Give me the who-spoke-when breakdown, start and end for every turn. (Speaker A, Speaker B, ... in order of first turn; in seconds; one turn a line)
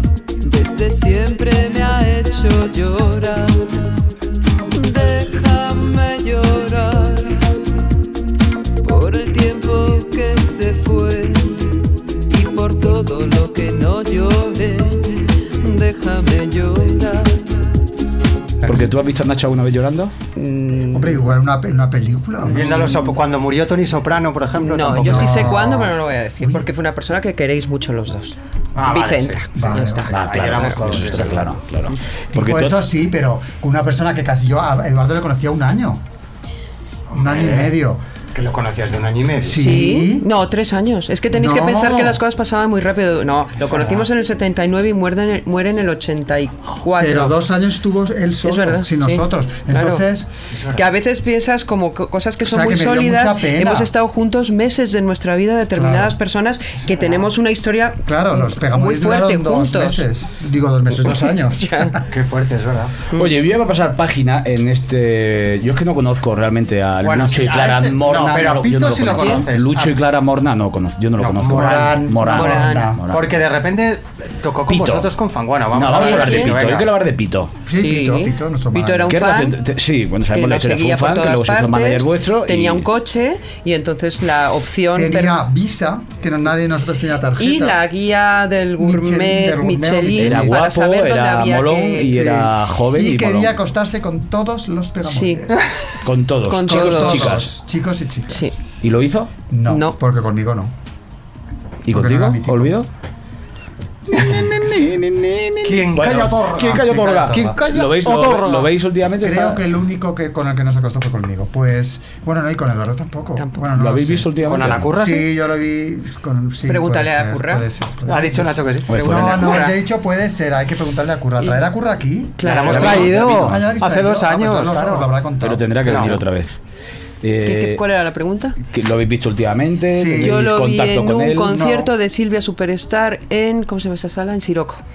Speaker A: 0.4-3.7
Speaker A: 4.7-7.4
Speaker A: 8.8-11.7
Speaker A: 12.3-17.5
Speaker B: 18.6-20.1
Speaker C: 20.4-21.3
Speaker D: 20.9-23.1
Speaker E: 22.4-25.5
Speaker C: 24.6-30.7
Speaker D: 24.9-26.6
Speaker E: 28.8-31.5
Speaker D: 29.6-30.1
Speaker B: 30.1-32.8
Speaker D: 32.3-36.0
Speaker D: 37.1-38.0
Speaker E: 37.1-37.7
Speaker E: 38.3-39.8
Speaker D: 39.4-40.3
Speaker C: 39.5-47.4
Speaker D: 41.3-42.2
Speaker D: 47.0-50.3
Speaker C: 48.4-50.0
Speaker E: 50.5-50.8
Speaker C: 50.7-60.0
Speaker D: 52.4-53.9
Speaker D: 55.7-56.2
Speaker D: 56.9-57.1
Speaker D: 58.0-62.0
Speaker C: 61.5-62.0
Speaker E: 62.1-63.0
Speaker B: 63.1-73.3
Speaker E: 67.0-70.0
Speaker C: 69.2-69.4
Speaker E: 71.2-72.0
Speaker D: 71.5-73.0
Speaker C: 72.3-72.9
Speaker E: 73.1-76.9
Speaker B: 74.7-75.1
Speaker B: 75.7-77.5
Speaker C: 75.9-76.5
Speaker D: 77.6-79.2
Speaker C: 77.8-79.6
Speaker B: 79.1-82.9
Speaker C: 80.3-85.4
Speaker D: 84.9-87.8
Speaker C: 87.4-92.4
Speaker D: 88.8-90.6
Speaker B: 90.1-93.5
Speaker D: 92.1-95.6
Speaker C: 95.0-95.5
Speaker B: 96.0-97.5
Speaker C: 96.5-97.4
Speaker D: 96.6-98.5
Speaker C: 98.3-98.5
Speaker B: 98.8-99.3
Speaker D: 99.5-100.7
Speaker C: 99.7-100.0
Speaker B: 101.8-102.9
Speaker D: 101.9-102.8
Speaker D: 104.1-104.8
Speaker B: 104.1-109.6
Speaker E: 105.6-108.7
Speaker D: 106.8-107.6
Speaker D: 109.2-125.9
Speaker B: 113.7-114.9
Speaker E: 114.4-115.3
Speaker C: 116.7-117.7
Speaker E: 118.0-119.5
Speaker B: 118.9-119.3
Speaker C: 118.9-119.8
Speaker C: 122.4-123.0
Speaker E: 122.4-125.1
Speaker B: 122.6-123.6
Speaker B: 125.4-126.6
Speaker E: 125.8-126.2
Speaker B: 127.2-127.8
Speaker C: 127.4-128.6
Speaker B: 128.6-131.8
Speaker D: 129.9-130.4
Speaker C: 130.2-134.8
Speaker D: 131.5-131.9